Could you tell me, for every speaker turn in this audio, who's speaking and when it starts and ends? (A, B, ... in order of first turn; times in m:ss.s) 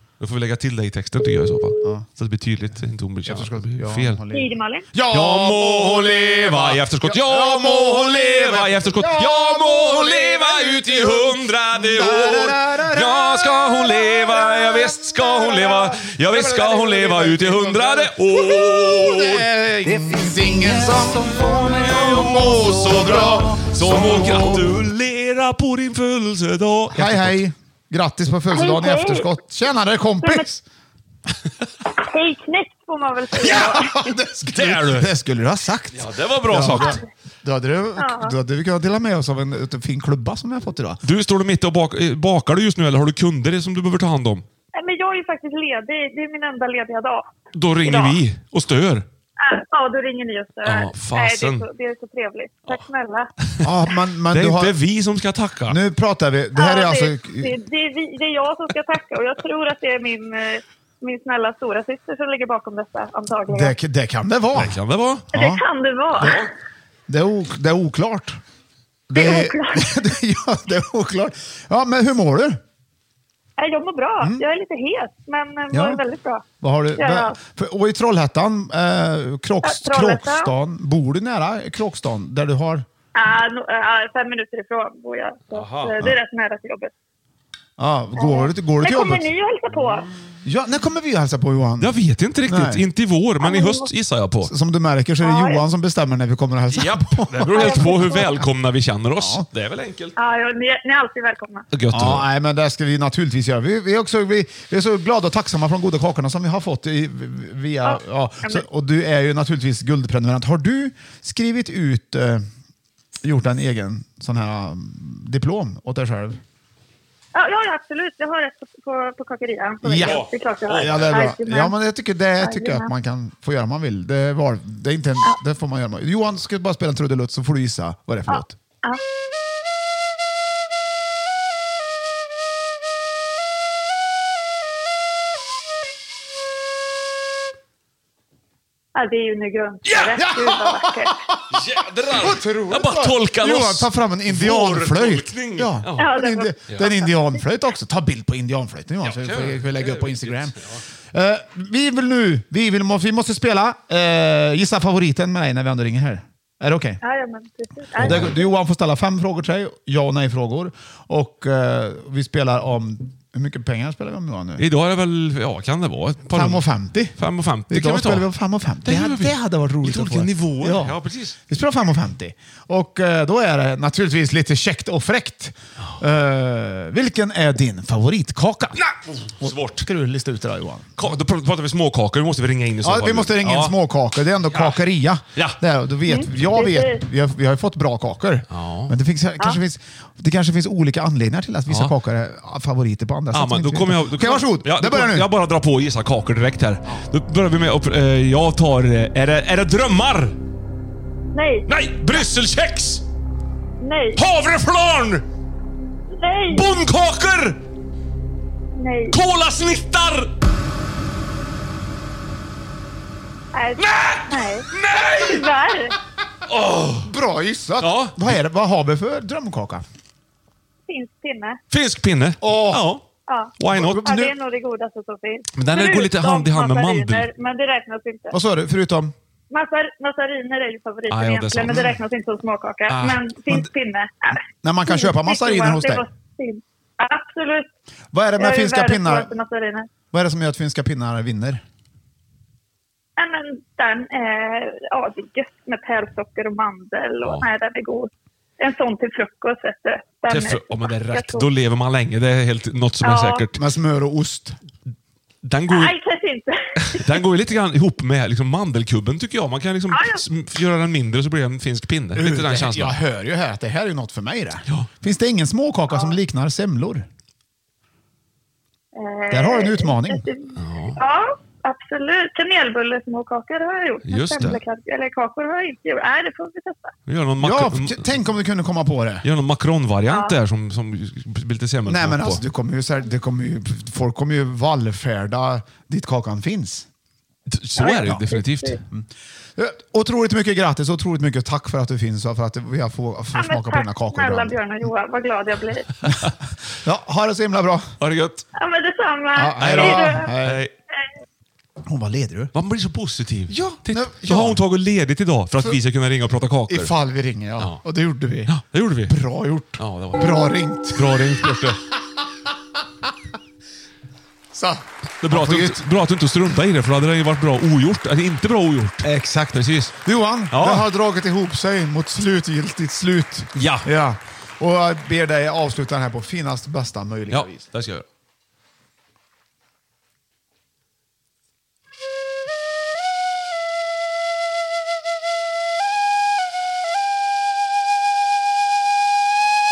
0:00.2-0:04.2 A
0:03.2-0:24.6 B
0:04.3-0:04.8 C
0:05.1-0:19.5 A
0:20.9-0:27.4 A
0:26.9-0:30.6 B
0:28.5-0:29.3 C
0:32.0-0:34.0 C
0:33.4-0:41.0 B
0:33.4-0:33.7 A
0:34.5-0:35.1 A
0:35.9-0:37.0 A
0:36.7-0:37.0 C
0:38.0-0:38.3 C
0:41.0-0:44.4 A
0:44.8-0:47.2 C
0:47.5-0:49.0 A
0:47.8-0:48.2 C
0:49.4-0:53.3 C
0:50.6-0:51.7 A
0:53.6-0:54.8 B
0:54.3-0:55.8 A
0:55.7-0:57.5 B
0:56.5-1:03.7 C
1:03.5-1:04.8 B
1:04.5-1:05.3 A
1:05.3-1:05.6 B
1:05.3-1:06.4 C
1:06.2-1:06.5 A
1:07.1-1:08.4 B
1:09.1-1:12.6 B
1:09.1-1:10.0 C
1:13.6-1:16.4 C
1:14.2-1:14.4 B
1:15.7-1:16.0 B
1:16.6-1:22.8 B
1:17.0-1:17.4 C
1:19.6-1:20.5 C
1:23.1-1:26.9 C
1:25.5-1:26.1 A
1:27.8-1:29.3 B
1:28.2-1:30.0 C
1:30.4-1:31.9 B
1:31.8-1:34.5 A
1:32.4-1:32.8 B
1:33.4-1:33.9 C
1:34.4-1:38.2 B
1:35.2-1:35.6 C
1:36.7-1:40.2 A
1:37.5-1:38.4 C
1:39.2-1:39.4 B
1:40.2-1:41.6 C
1:41.7-1:42.2 A
1:41.9-1:52.4 B
1:47.8-1:48.6 C
1:53.2-1:56.4 B
1:57.3-2:01.7 C
1:59.8-2:08.5 B
2:00.0-2:01.3 A
2:02.4-2:02.9 C
2:08.3-2:09.0 C
2:18.9-2:21.1 C
2:19.8-2:20.2 A
2:20.1-2:21.4 B
2:21.5-2:26.1 A
2:22.1-2:30.6 B
2:26.0-2:27.1 C
2:29.0-2:30.8 A
2:31.1-2:37.0 B
2:37.0-2:38.5 C
2:38.0-2:44.6 B
2:38.0-2:38.3 A
2:44.6-2:48.3 A
2:46.3-2:47.2 B
2:47.7-2:58.8 B
2:48.8-2:51.4 A
2:58.7-2:59.8 A
2:59.4-3:00.9 B
3:01.0-3:03.7 A
3:02.8-3:15.3 B
3:04.5-3:04.8 A
3:06.0-3:07.0 C
3:08.5-3:08.9 A
3:11.7-3:11.9 A
3:13.3-3:20.4 A
3:21.3-3:22.2 C
3:21.7-3:23.0 A
3:23.8-3:24.2 C
3:24.2-3:25.2 A
3:26.1-3:26.7 C
3:26.5-3:27.6 A
3:28.8-3:29.2 C
3:29.1-3:30.3 A
3:33.5-3:34.6 C
3:33.8-3:35.4 A
3:35.2-3:35.9 C
3:36.4-3:37.1 A
3:37.0-3:39.8 B
3:37.8-3:38.3 A
3:40.9-3:41.6 C
3:41.7-3:43.0 A
3:42.4-3:42.8 B
3:43.3-3:48.4 C
3:43.6-3:44.2 A
3:43.7-3:44.3 B
3:45.5-3:47.3 A
3:48.3-3:49.1 B
3:49.5-3:57.7 C
3:51.1-3:52.0 A
3:52.9-3:53.7 A
3:54.6-3:56.0 B
3:58.1-3:59.3 B
3:58.4-3:59.9 C
4:00.1-4:01.6 B
4:03.2-4:11.5 C
4:07.2-4:07.5 A
4:10.3-4:13.6 A
4:13.0-4:13.5 C
4:13.6-4:14.6 B
4:15.4-4:15.9 A
4:15.7-4:17.2 C
4:16.8-4:23.0 A
4:19.9-4:20.2 C
4:22.1-4:27.1 B
4:25.9-4:26.2 C
4:28.9-4:36.9 C
4:29.3-4:30.2 B
4:30.6-4:31.0 A
4:34.0-4:34.6 A
4:37.1-4:38.2 A
4:37.4-4:39.2 B
4:39.2-4:42.4 A
4:40.1-4:40.4 C
4:41.8-4:46.9 B
4:47.5-4:48.8 A
4:47.8-4:48.8 C
4:48.9-4:54.6 B
4:53.3-4:55.9 C
4:56.8-4:57.9 B
4:58.0-4:58.4 A
4:58.6-5:00.3 C
4:59.3-5:00.6 B
4:59.6-5:00.7 A
5:01.8-5:02.5 B
5:02.5-5:06.9 A
5:03.5-5:04.6 B
5:06.7-5:11.7 B
5:08.5-5:09.2 A
5:09.8-5:11.8 A
5:14.5-5:15.8 B
5:15.2-5:20.0 A
5:19.0-5:27.6 B
5:20.5-5:20.9 A
5:23.5-5:23.9 A
5:27.3-5:28.0 A